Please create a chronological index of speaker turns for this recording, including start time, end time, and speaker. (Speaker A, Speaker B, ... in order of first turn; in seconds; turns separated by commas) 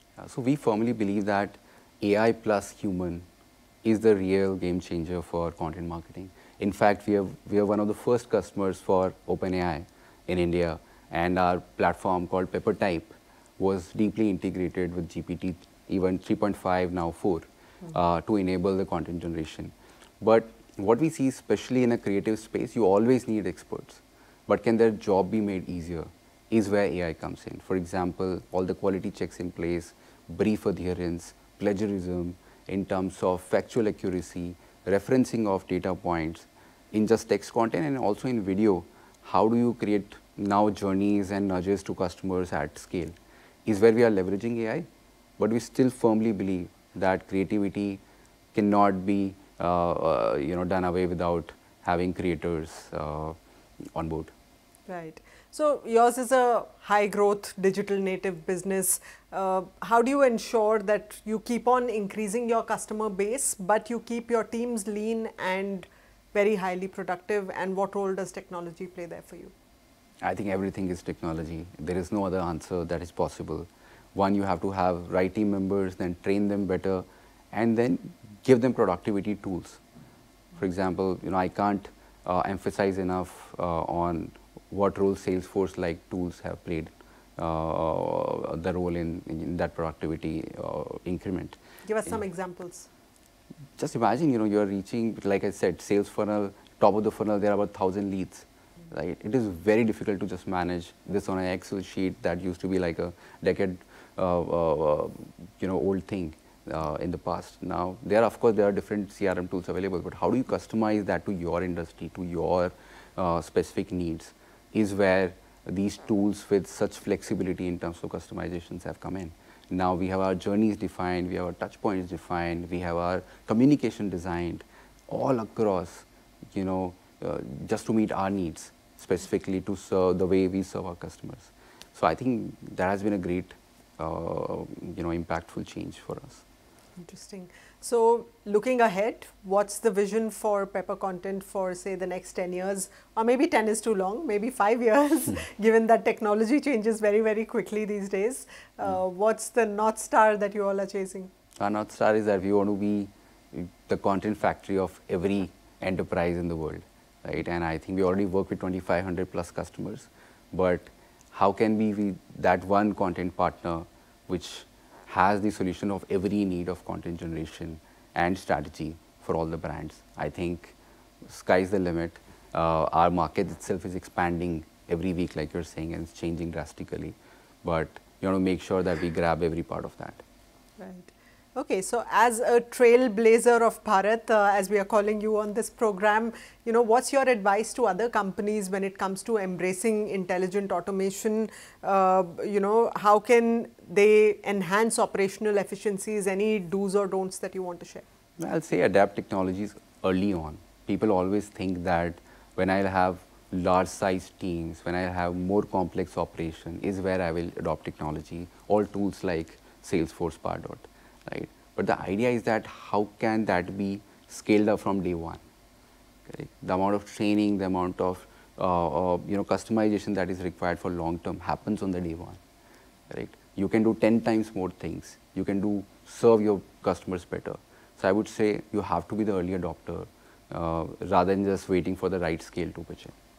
Speaker A: 0.2-3.2, Speaker A: 3.8-43.1, Speaker A: 43.6-44.9, Speaker A: 45.4-48.0, Speaker A: 48.5-53.4, Speaker A: 53.9-54.3, Speaker B: 54.9-69.5, Speaker A: 70.2-79.8, Speaker A: 80.6-92.1, Speaker B: 91.8-92.9, Speaker A: 93.8-136.4, Speaker B: 137.0-151.3, Speaker A: 151.6-170.7, Speaker A: 171.2-180.2, Speaker B: 180.8-198.0, Speaker A: 198.4-215.4, Speaker A: 216.3-222.4, Speaker A: 223.1-233.1